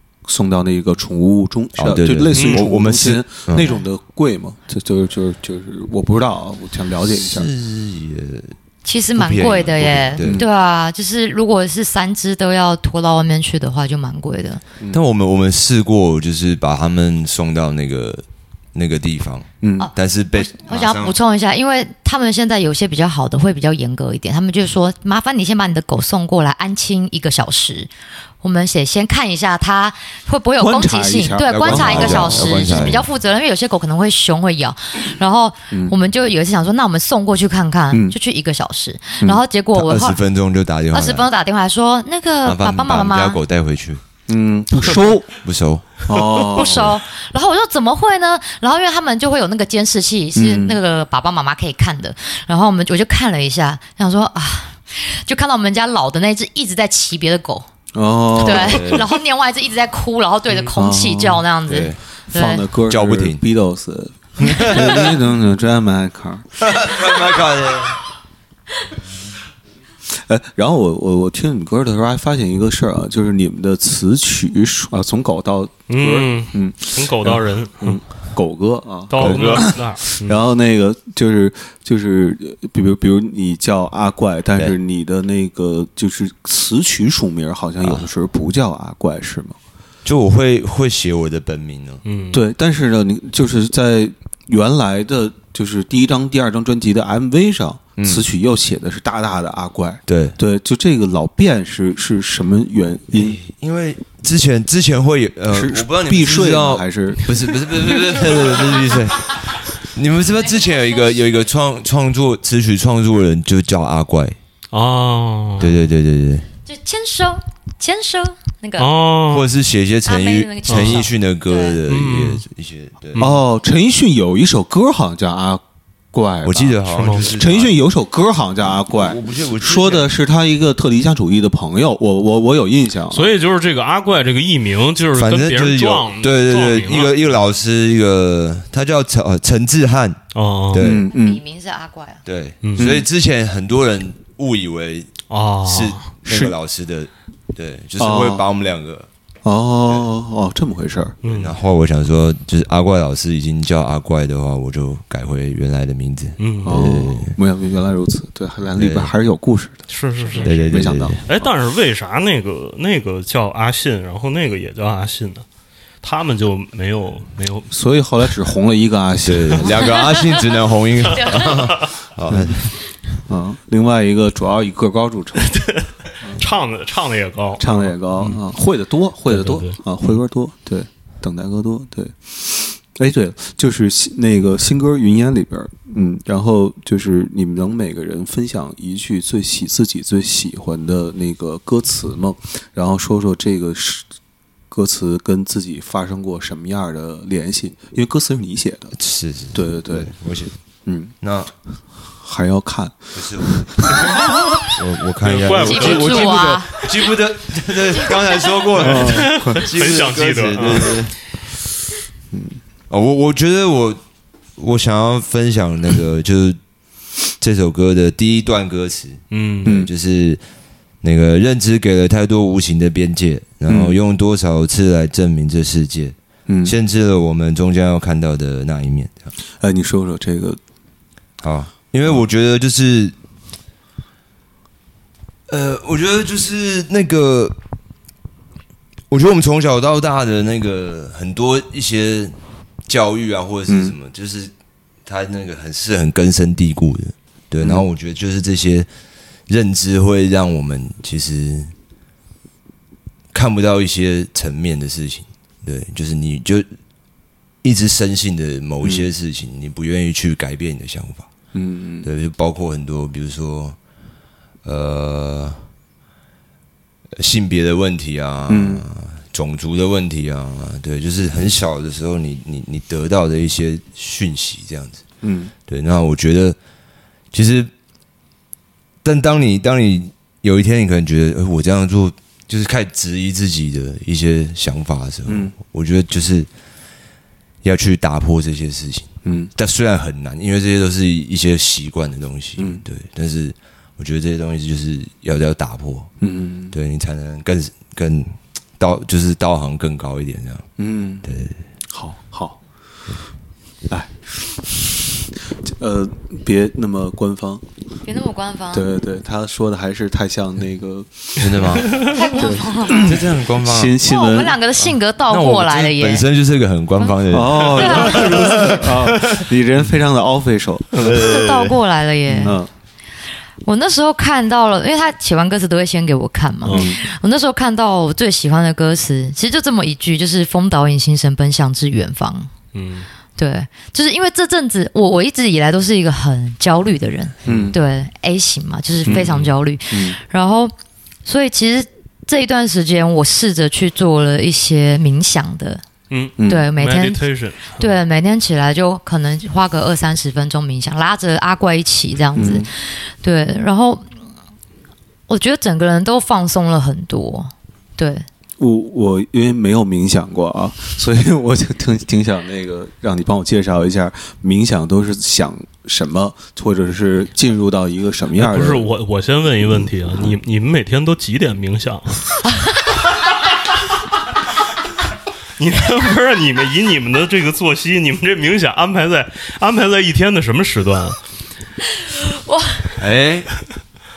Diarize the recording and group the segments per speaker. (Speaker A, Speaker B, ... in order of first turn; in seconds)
Speaker A: 0.2-7.5, 10.2-10.5, 19.6-19.9, 30.6-33.0, 37.9-38.1, 44.3-45.3, 46.1-47.0, 50.4-50.8, 57.9-59.0, 60.7-61.5, 62.3-66.5, 70.1-89.6, 92.3-103.4, 105.5-107.3, 123.2-125.6, 126.1-133.3, 140.8-141.4, 142.8-143.1, 146.2-146.6, 148.0-148.5, 149.4-151.2, 156.6-159.8, 160.4-161.2, 167.7-169.9, 172.3-172.6, 173.3-175.6, 177.6-194.1, 194.7-198.9, 199.5-200.1, 200.9-201.1, 202.1-204.3, 208.8-209.7, 212.3-212.6, 219.7-219.9, 223.7-224.0, 226.5-226.8, 229.6-230.6, 243.7-243.9, 247.6-247.8, 258.8-259.1, 261.5-262.1, 268.5-268.9, 275.2-275.5, 285.2-285.6, 289.2-289.5, 292.6-292.8, 296.2-296.7, 300.8-301.3, 301.9-302.6, 303.9-307.6, 308.7-314.6, 317.3-321.2, 322.3-322.7, 326.7-327.0, 337.4-337.8, 339.9-340.2, 346.4-346.7, 352.4-352.7, 358.6-368.9
Speaker B: 1.8-3.7, 7.1-8.6, 9.1-10.4, 14.9-21.1, 31.5-33.1, 39.7-41.3, 42.4-44.0, 45.4-45.9, 58.4-59.1, 61.7-62.0, 62.9-63.4, 64.4-65.2, 66.6-68.0, 79.2-79.8, 90.0-92.0, 98.0-98.2, 100.1-100.4, 103.1-114.4, 115.6-116.5, 119.3-123.2, 126.4-127.8, 129.0-130.1, 135.1-140.2, 140.7-141.1, 142.2-145.1, 145.6-149.1, 151.2-157.4, 158.8-159.1, 160.4-161.2, 169.2-172.8, 199.0-200.5, 201.2-201.5, 203.2-211.2, 212.9-214.0, 214.6-216.6, 217.4-220.4, 221.0-229.3, 231.4-233.2, 235.5-237.6, 239.1-242.4, 242.9-244.5, 245.1-248.9, 249.5-251.7, 253.3-256.6, 257.6-261.3, 262.0-263.8, 264.6-265.6, 267.2-275.0, 275.7-276.6, 277.3-277.7, 279.0-286.5, 287.6-296.1, 296.7-300.7, 301.2-301.6, 311.4-312.1, 312.9-314.0, 314.8-319.5, 321.0-321.8, 383.0-383.5
Speaker C: 2.3-2.6, 75.9-78.0, 79.1-80.4, 92.0-92.4, 114.7-115.8, 118.8-119.5, 120.7-121.0, 121.9-122.4, 123.1-123.4, 126.9-127.3, 133.1-137.3, 140.3-140.9, 142.6-142.9, 145.3-146.1, 151.2-151.6, 156.4-156.8, 159.9-165.4, 166.0-167.7, 175.4-178.4, 179.3-180.1, 205.2-206.6, 208.8-211.1, 219.3-219.7, 332.7-333.1, 337.4-337.7, 339.1-339.5, 346.1-348.0, 368.4-372.4, 375.6-381.2
Speaker D: 8.8-14.6, 19.8-27.9, 28.4-40.2, 40.9-43.4, 46.5-57.7, 58.4-62.7, 110.4-111.2, 116.7-118.9, 120.0-121.8, 141.1-142.2, 169.8-170.4, 171.1-171.7, 205.5-206.9, 308.1-308.9, 311.9-313.1, 314.0-316.3, 317.0-318.8, 321.1-322.6, 323.6-332.5, 333.4-340.7, 341.2-345.8, 346.5-347.2, 347.8-354.1, 355.3-358.2, 382.1-382.9